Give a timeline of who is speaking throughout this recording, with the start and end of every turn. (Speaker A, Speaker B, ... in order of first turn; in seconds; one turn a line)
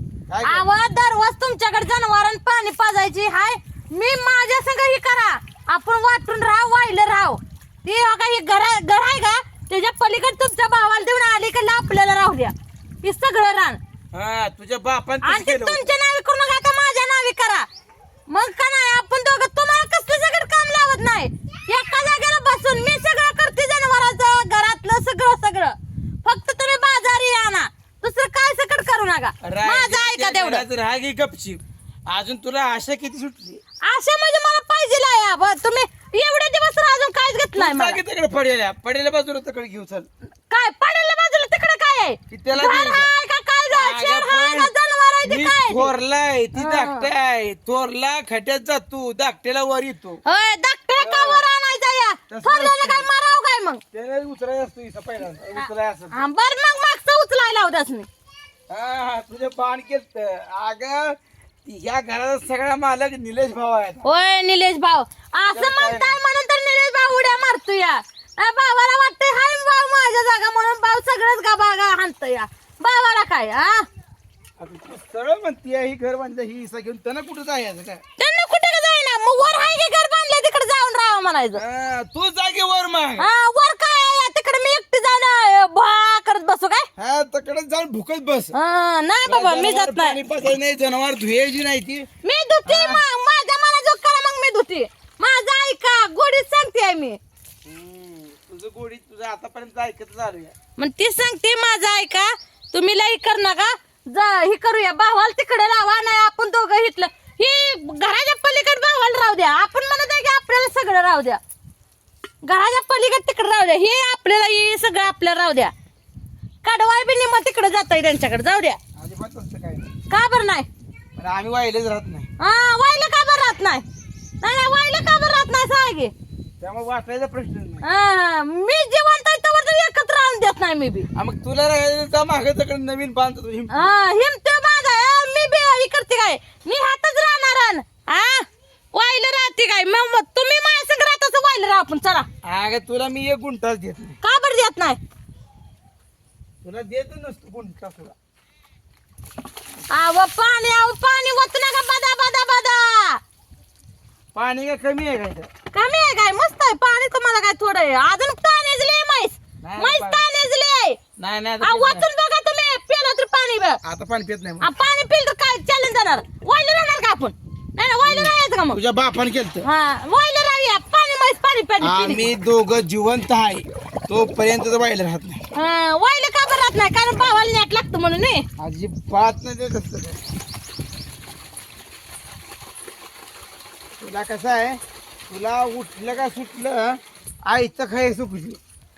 Speaker A: 0.3-0.7
Speaker B: 0.4-13.8
Speaker A: 14.1-15.9
Speaker B: 15.2-17.7
Speaker B: 18.3-30.6
Speaker A: 29.4-33.6
Speaker B: 33.8-38.0
Speaker A: 37.5-40.1
Speaker B: 40.5-45.9
Speaker A: 42.3-43.1
Speaker A: 43.7-44.7
Speaker A: 45.2-50.2
Speaker B: 46.6-47.1
Speaker B: 50.3-53.8
Speaker A: 51.0-51.5
Speaker A: 52.3-53.1
Speaker A: 53.9-56.2
Speaker B: 55.6-58.1
Speaker A: 58.7-64.1
Speaker B: 64.0-73.9
Speaker A: 65.4-66.2
Speaker A: 74.6-78.0
Speaker B: 78.2-81.6
Speaker A: 81.5-83.3
Speaker B: 83.2-86.9
Speaker A: 87.0-88.5
Speaker B: 88.5-90.2
Speaker A: 89.2-92.1
Speaker B: 92.2-97.2
Speaker A: 92.7-93.0
Speaker A: 97.7-100.5
Speaker B: 100.8-111.4
Speaker B: 112.4-115.7
Speaker B: 116.6-118.8
Speaker A: 119.0-119.9
Speaker B: 120.1-120.7
Speaker A: 121.2-122.3
Speaker B: 122.4-123.8
Speaker B: 124.4-126.1
Speaker A: 126.6-127.8
Speaker B: 127.8-131.1
Speaker A: 131.1-133.9
Speaker B: 133.7-142.3
Speaker A: 142.4-144.2
Speaker B: 144.2-145.0
Speaker A: 146.6-148.1
Speaker B: 149.9-153.2
Speaker A: 154.3-155.5
Speaker B: 155.7-161.0
Speaker A: 159.6-160.2
Speaker A: 161.2-162.1
Speaker B: 161.6-163.8
Speaker A: 163.8-164.7
Speaker B: 164.6-168.8
Speaker A: 168.0-169.7
Speaker B: 169.6-172.3
Speaker A: 171.8-175.4
Speaker B: 175.6-178.5
Speaker A: 178.6-180.2
Speaker A: 184.0-188.6